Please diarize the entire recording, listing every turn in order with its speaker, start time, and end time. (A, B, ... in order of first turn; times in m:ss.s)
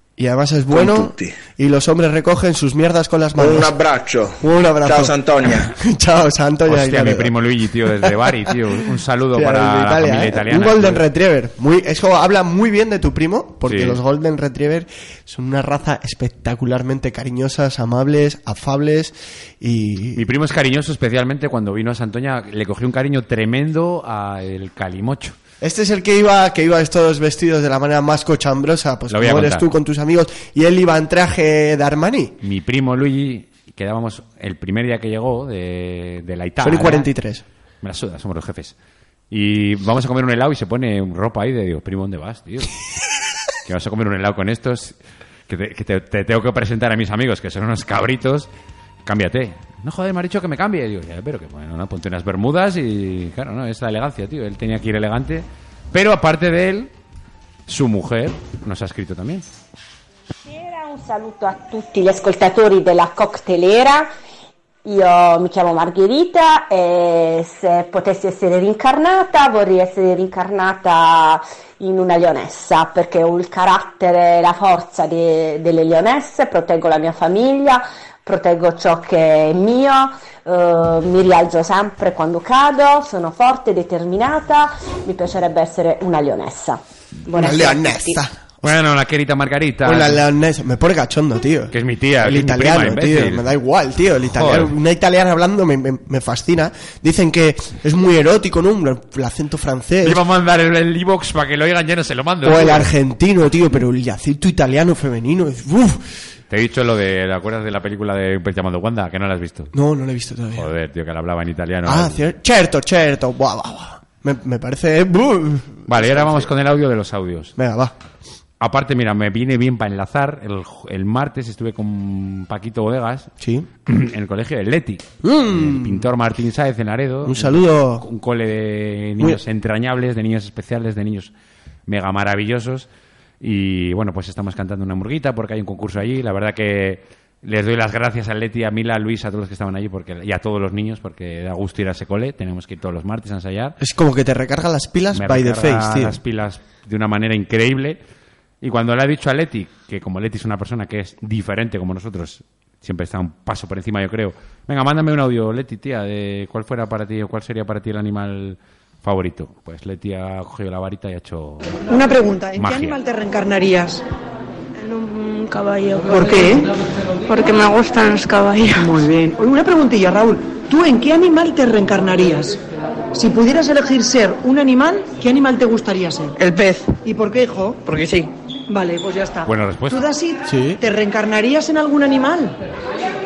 0:00.2-0:03.8 A
0:00.7-0:01.3 B
0:03.4-0:05.7 B
0:04.4-0:05.2 A
0:05.7-0:07.3 A
0:06.7-0:11.0 C
0:08.1-0:08.5 A
0:09.3-0:20.2 A
0:13.6-0:14.0 C
0:20.2-0:25.4 C
0:25.6-0:32.4 A
0:29.1-0:29.7 C
0:32.4-0:37.1 C
0:36.6-0:37.4 A
0:37.8-0:38.7 C
0:39.3-0:42.8 C
0:43.6-0:45.0 C
0:45.5-0:48.5 C
0:49.1-0:56.9 C
0:57.7-0:59.4 C
1:00.5-1:04.1 D
1:04.8-1:28.2 D
1:27.3-1:28.5 A
1:28.6-1:30.2 C
1:29.8-1:40.2 A
1:31.7-1:33.5 C
1:34.3-1:34.8 C
1:40.0-1:42.9 C
1:42.4-1:46.0 A
1:46.5-1:49.7 C
1:49.7-1:50.7 A
1:50.6-1:52.2 C
1:51.9-1:56.5 A
1:55.9-1:57.5 C
1:57.6-1:57.9 A
1:58.6-2:03.3 C
2:03.4-2:03.7 A
2:03.9-2:11.3 C
2:05.2-2:06.1 A
2:07.2-2:08.1 A
2:11.9-2:12.9 C
2:13.4-2:23.8 C
2:23.8-2:26.2 A
2:25.1-2:28.0 C
2:28.6-2:41.9 C
2:41.9-2:44.0 E
2:42.6-2:43.0 C
2:44.8-2:46.4 F
2:46.1-2:46.7 E
2:47.3-2:48.9 F
2:48.8-2:52.6 E
2:53.1-2:56.4 E
2:57.0-2:58.0 E
2:58.7-3:02.6 E
2:59.5-3:00.0 C
3:00.5-3:00.8 A